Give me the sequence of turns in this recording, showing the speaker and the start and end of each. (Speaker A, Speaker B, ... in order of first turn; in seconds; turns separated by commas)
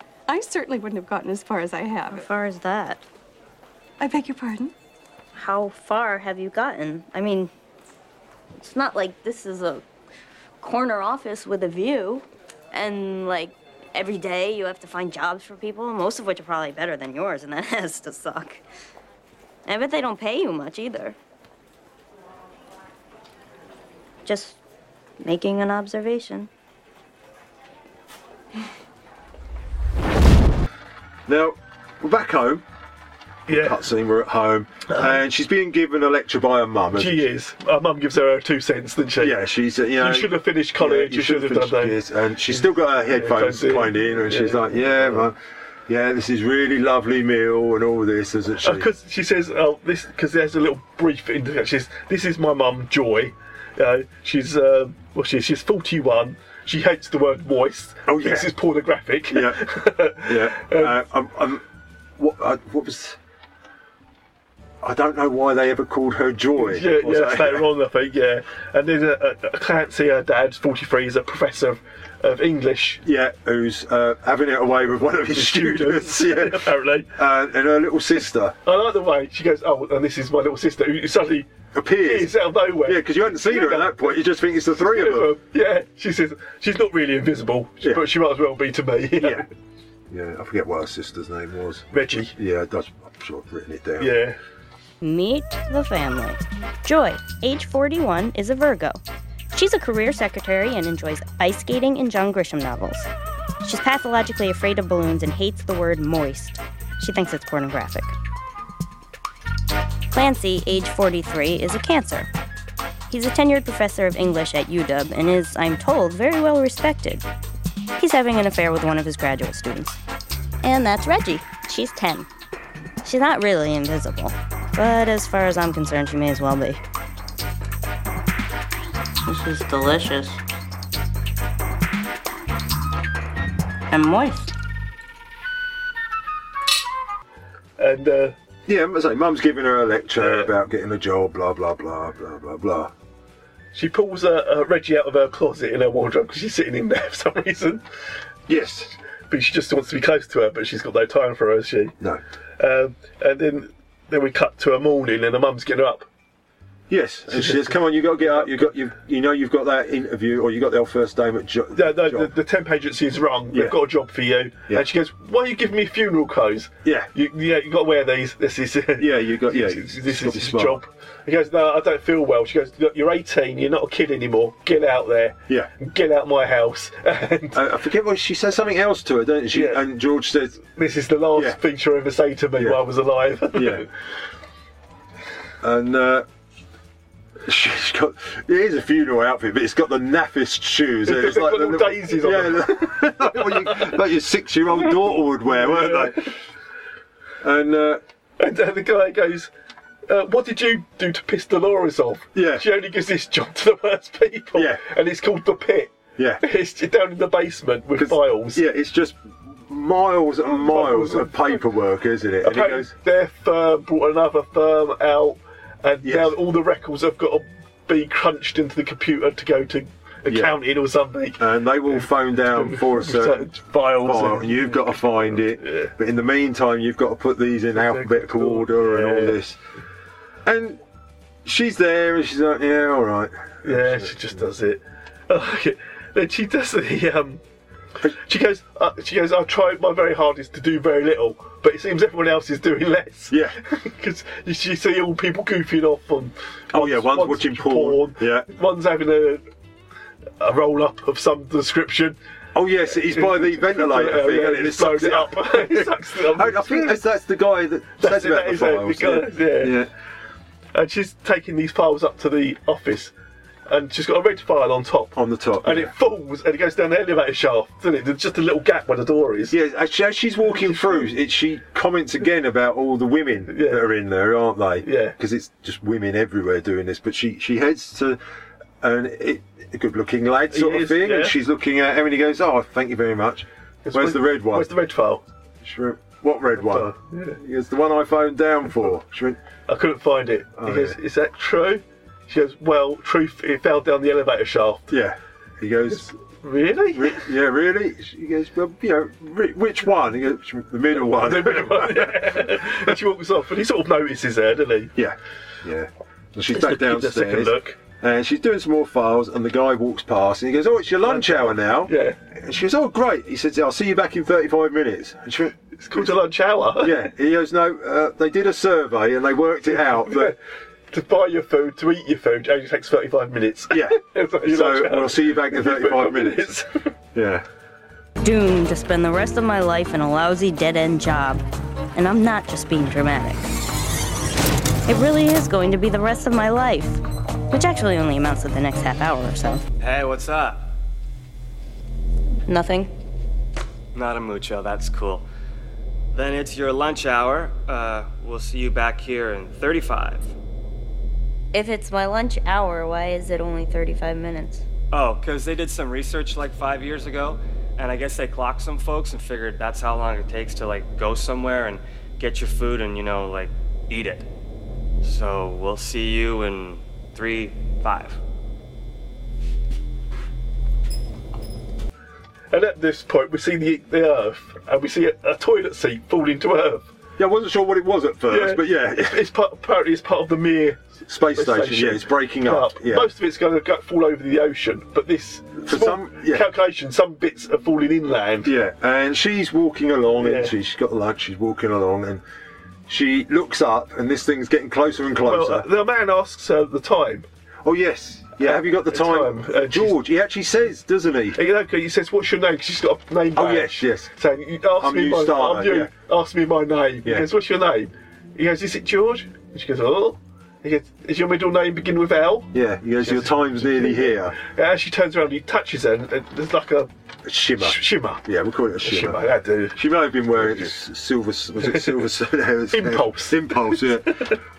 Speaker A: 0.3-2.3, Speaker B: 2.1-3.0, Speaker A: 4.0-4.7, Speaker B: 5.3-7.5, Speaker B: 8.6-9.8, Speaker B: 10.6-18.6, Speaker B: 19.7-21.2, Speaker B: 24.3-24.6, Speaker B: 25.2-26.5, Speaker C: 31.3-32.6, Speaker D: 33.5-33.8, Speaker C: 33.5-37.2, Speaker D: 37.0-39.4, Speaker C: 39.2-45.4, Speaker D: 40.0-45.3, Speaker C: 45.9-48.9, Speaker D: 48.6-61.0, Speaker C: 58.1-58.5, Speaker C: 59.3-61.6, Speaker C: 62.2-63.2, Speaker C: 64.8-67.7, Speaker D: 66.6-73.0, Speaker C: 73.0-78.5, Speaker D: 75.3-77.1, Speaker D: 78.6-84.2, Speaker C: 81.7-85.3, Speaker D: 84.7-89.5, Speaker C: 89.2-89.5, Speaker C: 90.1-91.8, Speaker D: 91.9-92.3, Speaker C: 92.4-94.2, Speaker D: 94.0-94.4, Speaker B: 95.0-99.0, Speaker B: 99.5-103.1, Speaker B: 103.6-108.1, Speaker B: 110.1-112.3, Speaker B: 113.1-117.2, Speaker B: 118.0-120.0, Speaker B: 120.6-122.3, Speaker B: 123.0-126.8, Speaker B: 129.2-130.4, Speaker B: 133.9-134.5, Speaker D: 137.8-138.3, Speaker C: 138.7-142.9, Speaker D: 140.2-140.5, Speaker D: 143.7-147.8, Speaker C: 148.5-148.9, Speaker D: 149.3-151.9, Speaker D: 152.6-156.1, Speaker C: 156.9-162.3, Speaker D: 157.3-158.7, Speaker D: 161.7-177.6, Speaker C: 163.5-163.8, Speaker C: 166.8-167.1, Speaker C: 169.0-170.8, Speaker C: 177.5-180.6, Speaker D: 179.5-179.9, Speaker D: 180.7-183.9, Speaker C: 183.5-183.9, Speaker C: 185.6-186.3, Speaker C: 187.4-196.3, Speaker D: 191.1-193.9, Speaker D: 195.5-196.3, Speaker C: 197.4-198.0, Speaker D: 198.4-199.5, Speaker D: 200.1-208.6, Speaker C: 202.3-202.7, Speaker C: 204.6-204.8, Speaker C: 206.2-206.4, Speaker C: 208.0-212.9, Speaker D: 210.5-211.6, Speaker D: 212.4-225.9, Speaker C: 216.0-216.4, Speaker C: 220.3-220.6, Speaker C: 221.4-229.6, Speaker D: 227.7-229.4, Speaker C: 230.4-230.8, Speaker C: 231.4-234.2, Speaker D: 233.6-237.4, Speaker D: 238.1-249.4, Speaker C: 243.3-243.6, Speaker C: 246.7-248.5, Speaker D: 250.4-252.2, Speaker C: 252.5-259.9, Speaker D: 252.9-257.0, Speaker D: 258.0-259.8, Speaker D: 260.7-263.1, Speaker D: 263.7-269.6, Speaker C: 265.1-265.9, Speaker C: 269.5-278.2, Speaker D: 270.6-271.1, Speaker D: 273.5-273.8, Speaker D: 274.8-275.1, Speaker C: 278.8-284.7, Speaker D: 280.5-281.4, Speaker D: 283.9-285.2, Speaker C: 285.6-289.4, Speaker D: 286.6-287.4, Speaker D: 289.7-294.9, Speaker C: 290.6-291.0, Speaker C: 294.9-296.1, Speaker D: 296.4-297.3, Speaker C: 296.9-302.5, Speaker D: 301.0-304.9, Speaker C: 305.0-316.2, Speaker D: 306.5-307.8, Speaker D: 311.0-312.2, Speaker D: 315.8-317.1, Speaker C: 316.8-320.4, Speaker D: 319.7-320.4, Speaker D: 320.9-326.8, Speaker C: 323.7-326.5, Speaker C: 327.1-327.4, Speaker B: 328.2-331.4, Speaker B: 331.9-333.5, Speaker B: 334.9-339.6, Speaker E: 339.8-340.6, Speaker B: 342.5-342.9, Speaker E: 343.9-345.2, Speaker E: 346.1-350.3, Speaker B: 351.5-354.6, Speaker E: 354.9-364.3, Speaker E: 365.0-368.2, Speaker D: 372.5-376.9, Speaker C: 377.2-379.2, Speaker D: 378.3-388.5, Speaker C: 381.1-383.1, Speaker C: 385.6-386.5, Speaker C: 388.4-392.2, Speaker D: 390.2-390.5, Speaker C: 392.9-395.7, Speaker D: 395.2-397.3, Speaker C: 397.6-401.4, Speaker D: 398.4-400.0, Speaker D: 401.4-416.9, Speaker C: 403.4-404.1, Speaker C: 404.8-405.9, Speaker C: 412.5-414.4, Speaker C: 417.2-424.4, Speaker D: 417.6-418.2, Speaker D: 418.8-419.8, Speaker D: 420.4-420.7, Speaker D: 421.6-421.9, Speaker D: 422.7-424.4